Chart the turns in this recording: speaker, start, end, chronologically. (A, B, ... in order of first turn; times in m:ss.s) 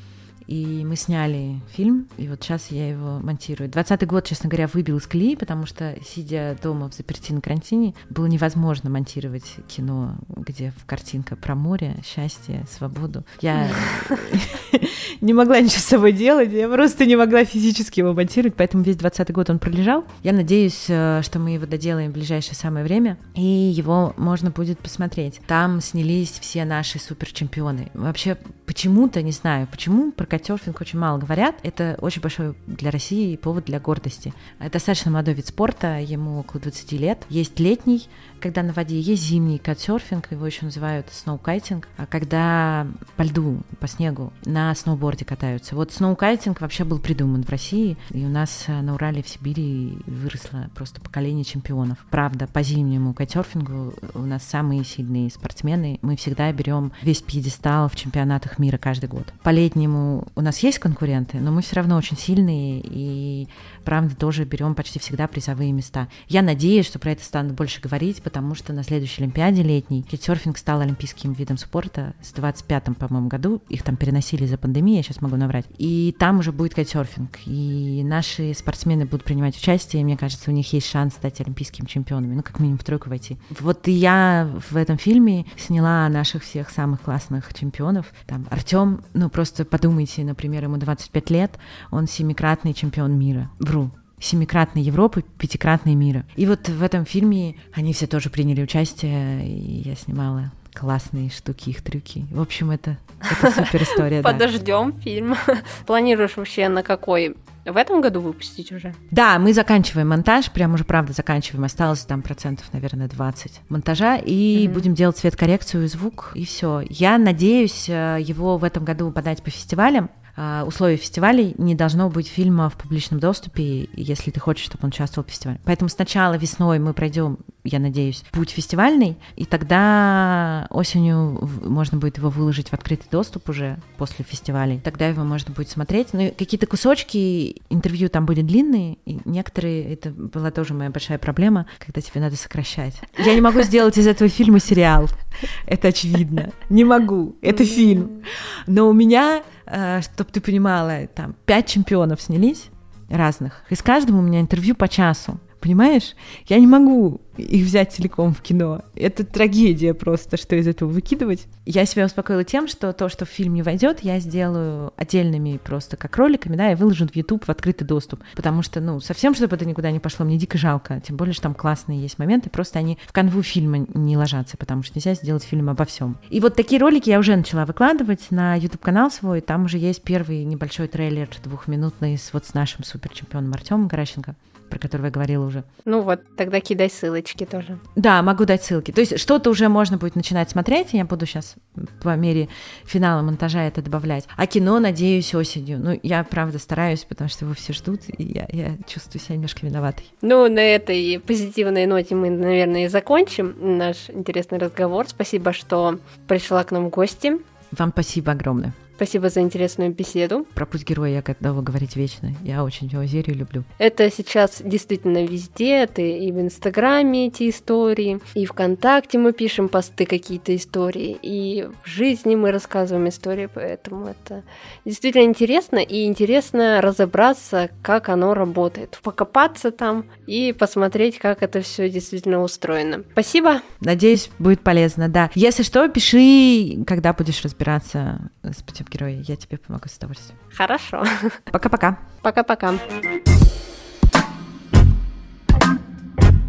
0:00.5-1:44.4 A
1:43.4-1:49.0 B
1:49.1-3:05.6 A
1:54.6-1:54.9 B
3:05.8-3:07.8 B
3:07.9-3:20.1 A
3:20.2-3:27.4 B
3:27.7-3:28.8 A
3:29.0-3:30.5 B
3:30.5-3:33.6 A
3:33.8-3:53.6 B
3:53.8-4:00.4 A
4:00.5-4:01.4 B
4:01.5-4:02.0 A
4:02.2-4:02.9 B